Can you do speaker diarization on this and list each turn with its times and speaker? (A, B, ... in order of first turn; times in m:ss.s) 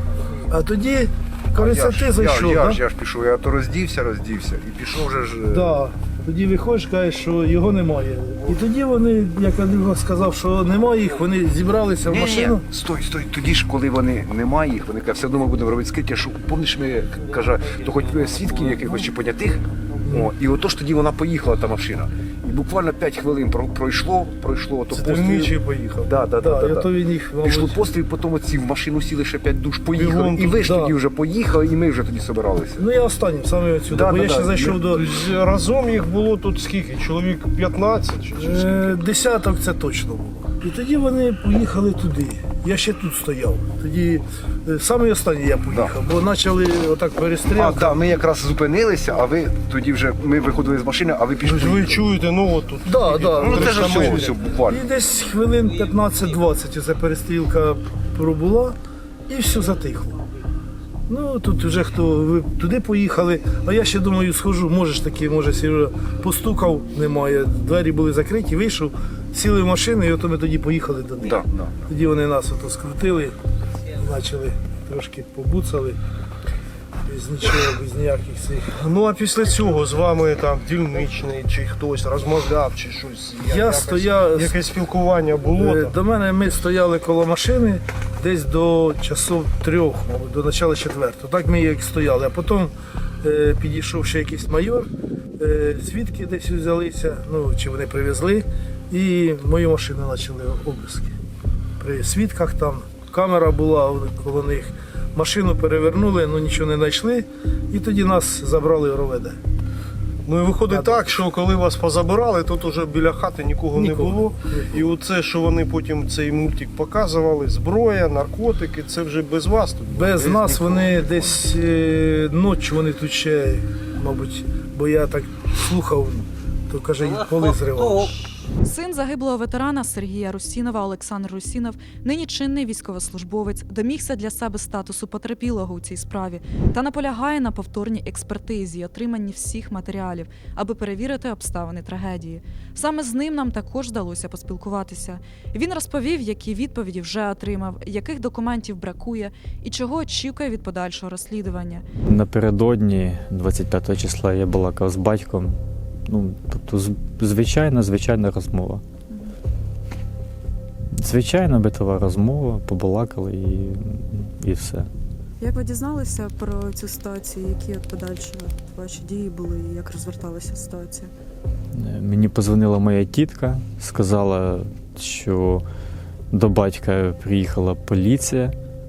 0:00.5-0:02.8 A
0:01.6-0:05.8 B
0:05.5-0:12.7 A
0:12.1-0:25.2 B
0:24.9-0:25.5 A
0:25.0-0:26.2 C
0:26.1-0:26.9 B
0:26.3-0:27.9 A
0:27.4-0:32.8 B
0:30.0-0:30.7 C
0:30.6-0:31.0 A
0:32.8-0:35.1 A
0:33.9-0:34.7 B
0:34.7-0:39.0 C
0:38.4-0:48.2 A
0:47.6-0:52.0 B
0:51.4-0:54.4 C
0:52.8-1:00.2 A
0:53.4-0:54.8 B
1:01.1-1:13.4 A
1:13.9-1:16.0 A
1:17.1-1:18.8 A
1:18.8-1:25.9 C
1:23.4-1:24.6 A
1:25.6-1:41.1 A
1:41.8-1:49.4 A
1:50.3-2:00.2 C
1:50.7-1:51.2 A
1:53.7-1:54.8 A
1:59.9-2:08.2 A
2:08.6-2:31.9 D
2:32.1-2:38.8 E
2:40.9-2:44.9 E
2:45.4-2:51.1 D
2:51.7-2:55.6 E
2:56.3-2:58.6 E